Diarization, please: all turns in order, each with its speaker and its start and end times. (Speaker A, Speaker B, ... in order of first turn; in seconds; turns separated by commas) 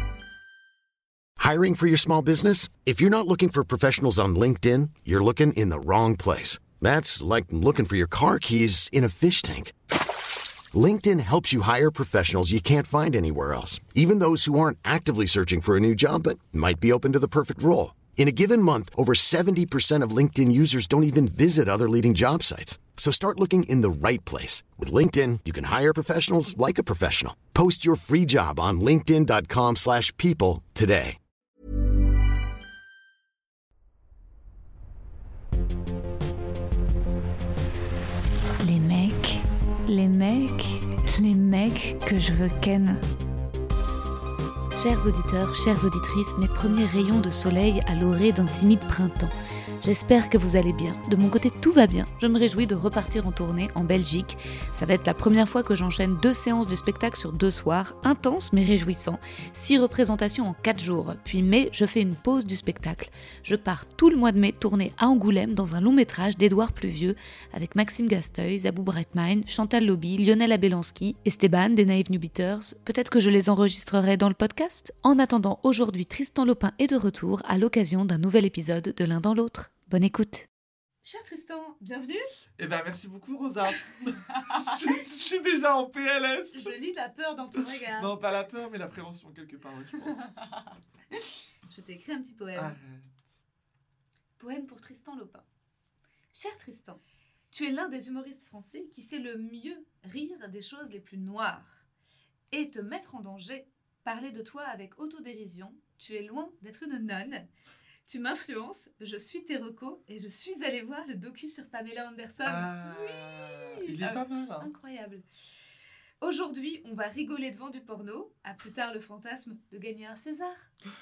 Speaker A: 1.4-9.7, Speaker A: 10.7-31.2, Speaker B: 38.6-43.0, Speaker B: 44.8-80.5, Speaker C: 81.0-82.2, Speaker D: 82.6-86.7, Speaker C: 84.3-84.8, Speaker C: 86.5-88.1, Speaker D: 87.7-90.2, Speaker C: 90.1-92.8, Speaker D: 92.5-93.1, Speaker C: 94.4-95.4, Speaker C: 96.3-97.0, Speaker C: 97.5-101.8, Speaker C: 102.5-107.5, Speaker C: 108.0-115.2, Speaker D: 112.5-114.7, Speaker C: 116.2-120.7